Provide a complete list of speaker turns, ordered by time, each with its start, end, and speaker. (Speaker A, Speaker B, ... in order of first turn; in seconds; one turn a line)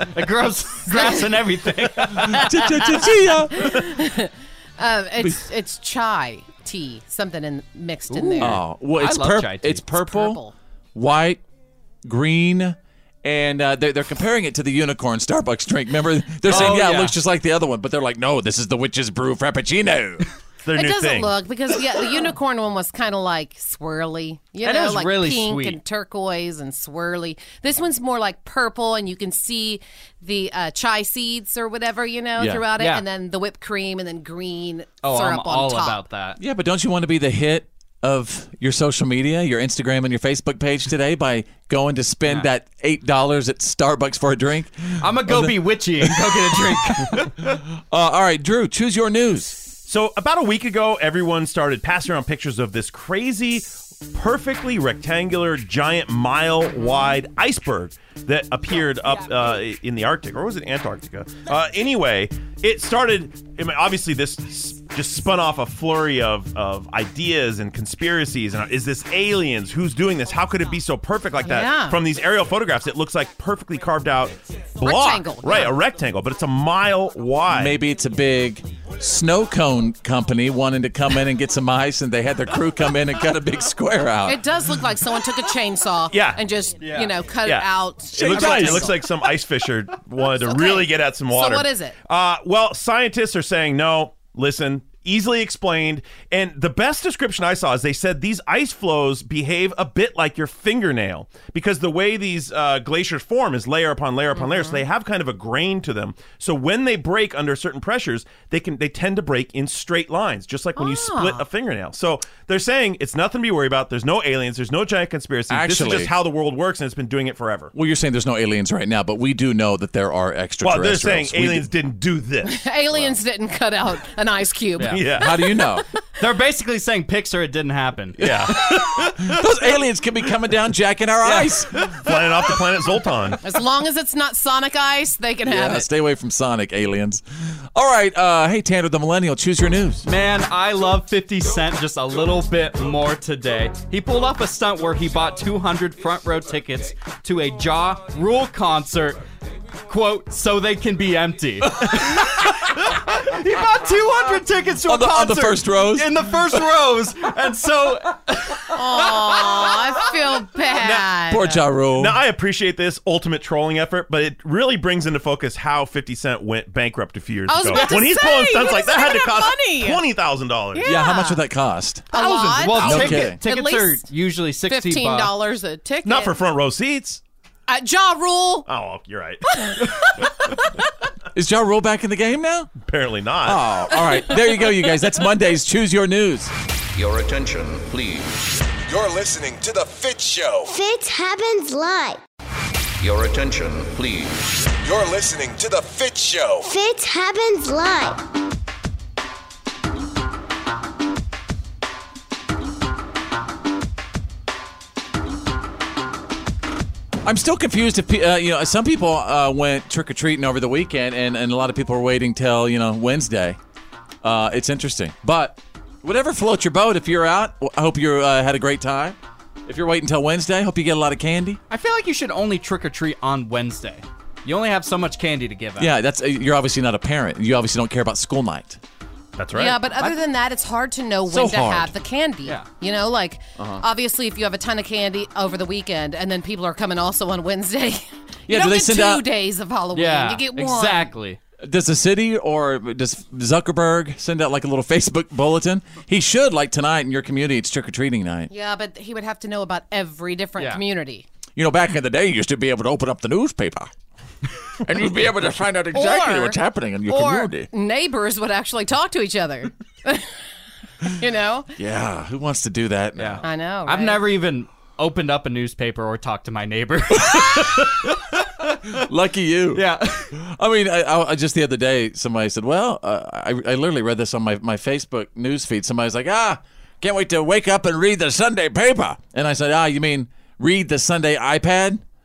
Speaker A: 0.1-2.5
Speaker B: 0.9-1.2
Speaker C: 2.2-3.8
Speaker B: 3.5-8.6
Speaker A: 8.1-9.8
Speaker C: 8.4-10.4
Speaker B: 9.9-10.5
Speaker C: 10.9-11.4
Speaker C: 12.0-20.3
Speaker A: 16.5-17.1
Speaker D: 20.6-21.4
Speaker B: 20.8-36.0
Speaker A: 24.6-25.8
Speaker C: 32.4-32.6
Speaker A: 32.8-33.0
Speaker A: 35.0-36.4
Speaker C: 36.4-49.6
Speaker A: 45.0-47.3
Speaker D: 49.9-77.8
Speaker B: 71.4-72.0
Speaker B: 74.8-75.7
Speaker C: 77.5-84.4
Speaker B: 84.3-89.0
Speaker D: 86.1-86.4
Speaker A: 86.8-87.1
Speaker D: 87.5-117.7
Speaker C: 88.3-88.8
Speaker B: 90.5-92.0
Speaker B: 104.3-104.8
Speaker B: 110.8-111.5
Speaker C: 115.5-116.1
Speaker C: 117.7-121.7
Speaker D: 120.6-122.5
Speaker B: 122.5-125.2
Speaker D: 124.9-125.4
Speaker C: 125.2-125.8
Speaker A: 126.2-128.5
Speaker D: 128.2-129.1
Speaker C: 128.2-131.7
Speaker A: 131.2-131.6
Speaker D: 132.0-133.4
Speaker B: 133.4-135.9
Speaker C: 135.5-140.1
Speaker A: 140.1-149.2
Speaker A: 149.9-159.6
Speaker C: 154.9-156.2
Speaker B: 158.7-161.6
Speaker C: 161.3-162.2
Speaker D: 162.0-171.0
Speaker B: 167.5-170.0
Speaker B: 170.8-171.4
Speaker C: 170.8-172.1
Speaker B: 172.1-174.1
Speaker D: 172.2-172.5
Speaker A: 172.4-175.3
Speaker C: 172.8-173.4
Speaker B: 174.7-176.3
Speaker D: 176.1-177.2
Speaker B: 177.7-178.7
Speaker D: 178.7-179.6
Speaker C: 181.3-182.7
Speaker D: 182.8-183.6
Speaker C: 183.4-186.5
Speaker E: 187.0-188.3
Speaker F: 188.9-190.8
Speaker G: 190.7-192.2
Speaker E: 193.0-194.5
Speaker F: 194.8-196.7
Speaker G: 196.7-198.2
Speaker C: 207.2-213.6
Speaker C: 214.2-221.6
Speaker A: 221.7-225.9
Speaker C: 225.8-228.8
Speaker D: 229.4-229.8
Speaker B: 229.6-241.1
Speaker C: 231.3-231.9
Speaker C: 233.6-233.8
Speaker C: 238.5-239.2
Speaker A: 239.9-241.4
Speaker C: 241.6-248.5
Speaker B: 248.5-251.3
Speaker C: 251.6-253.9
Speaker C: 254.8-257.7
Speaker B: 255.9-260.3
Speaker B: 261.2-261.7
Speaker C: 261.8-263.4
Speaker A: 263.2-268.1
Speaker B: 263.4-264.2
Speaker C: 267.2-267.8
Speaker C: 268.9-282.0
Speaker A: 269.8-270.3